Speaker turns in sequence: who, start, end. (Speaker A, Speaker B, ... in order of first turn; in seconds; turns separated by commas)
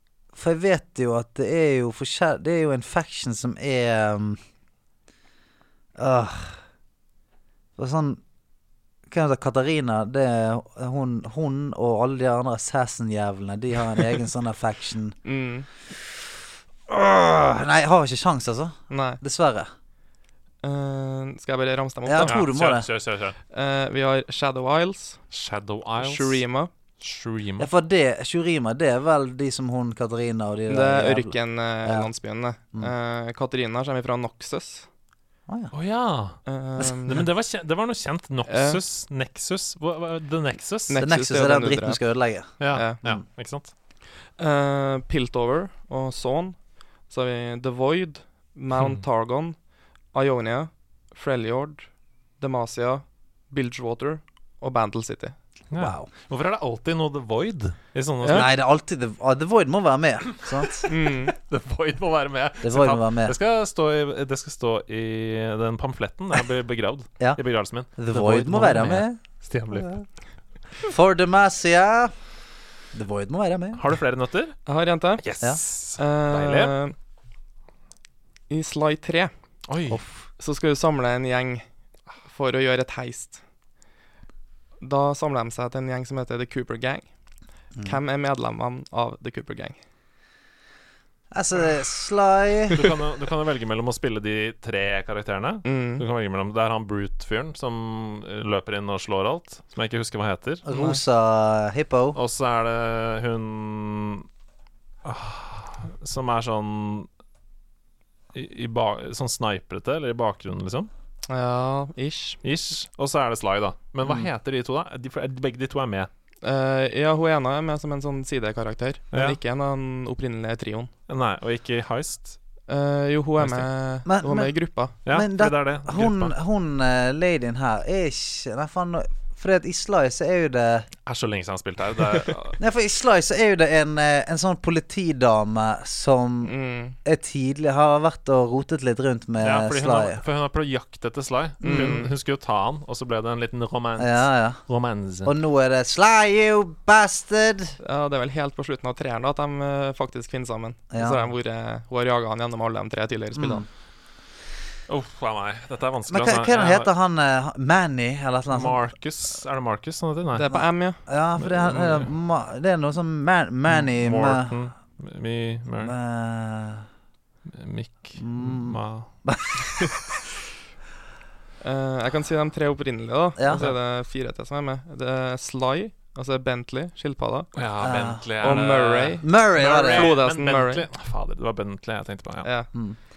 Speaker A: 0.3-4.4, Speaker A: 6.0-6.6, Speaker A: 7.8-8.2, Speaker A: 9.1-15.2, Speaker B: 15.2-15.7, Speaker A: 16.9-19.7, Speaker B: 18.9-19.2, Speaker B: 20.6-22.4, Speaker A: 22.1-22.9, Speaker C: 22.3-23.4, Speaker B: 23.5-25.2, Speaker C: 25.3-26.4, Speaker B: 26.0-26.7, Speaker C: 27.0-27.7, Speaker A: 27.6-32.1, Speaker B: 30.7-34.9, Speaker A: 35.5-35.7, Speaker C: 35.7-36.4, Speaker B: 36.5-37.2, Speaker C: 37.0-41.0, Speaker B: 38.5-38.8, Speaker B: 40.9-42.0, Speaker A: 41.0-42.5, Speaker C: 42.6-43.7, Speaker B: 42.7-43.0, Speaker B: 44.4-49.6, Speaker C: 48.8-49.0, Speaker B: 50.1-51.9, Speaker B: 52.4-55.4, Speaker C: 55.7-58.5, Speaker A: 55.8-56.1, Speaker B: 58.2-58.5, Speaker A: 58.3-60.9, Speaker C: 60.6-70.0, Speaker B: 60.9-61.4, Speaker A: 62.6-63.3, Speaker A: 67.9-69.2, Speaker A: 70.8-72.1, Speaker A: 72.9-73.8, Speaker C: 73.8-74.6, Speaker B: 74.7-75.2, Speaker C: 75.2-76.8, Speaker B: 76.0-76.9, Speaker B: 78.5-79.3, Speaker C: 79.7-80.0, Speaker B: 80.4-81.6, Speaker B: 82.3-83.4, Speaker B: 84.8-87.1, Speaker A: 87.8-88.0, Speaker B: 87.8-89.8, Speaker A: 91.3-92.8, Speaker C: 92.7-100.7, Speaker B: 95.7-96.0, Speaker A: 100.7-102.2, Speaker B: 100.7-101.0, Speaker C: 102.2-104.3, Speaker C: 105.0-107.1, Speaker C: 108.3-110.9, Speaker B: 111.3-112.4, Speaker C: 112.4-116.1, Speaker A: 114.0-114.3, Speaker B: 116.4-120.9, Speaker C: 119.1-119.4, Speaker C: 121.1-122.4, Speaker B: 122.7-125.0, Speaker C: 123.4-123.7, Speaker A: 124.1-124.5, Speaker C: 125.0-126.3, Speaker A: 125.1-130.9, Speaker C: 131.1-132.6, Speaker A: 132.6-136.5, Speaker B: 136.4-137.0, Speaker A: 137.0-140.2, Speaker C: 139.4-145.3, Speaker A: 141.6-142.0, Speaker B: 141.6-142.1, Speaker A: 144.0-144.6, Speaker A: 145.2-147.8, Speaker B: 147.8-153.7, Speaker A: 150.9-151.2, Speaker A: 153.3-153.7, Speaker C: 154.9-156.9, Speaker A: 156.1-158.8, Speaker C: 158.5-160.5, Speaker B: 160.3-161.0, Speaker A: 160.5-164.6, Speaker C: 161.4-162.1, Speaker C: 163.7-165.9, Speaker A: 165.8-166.9, Speaker C: 167.5-169.1, Speaker A: 168.2-170.0, Speaker B: 171.6-177.5, Speaker A: 173.4-173.7, Speaker C: 177.6-182.5, Speaker A: 177.8-178.6, Speaker B: 178.4-179.2, Speaker A: 179.2-180.2, Speaker B: 179.8-180.9, Speaker B: 182.4-182.7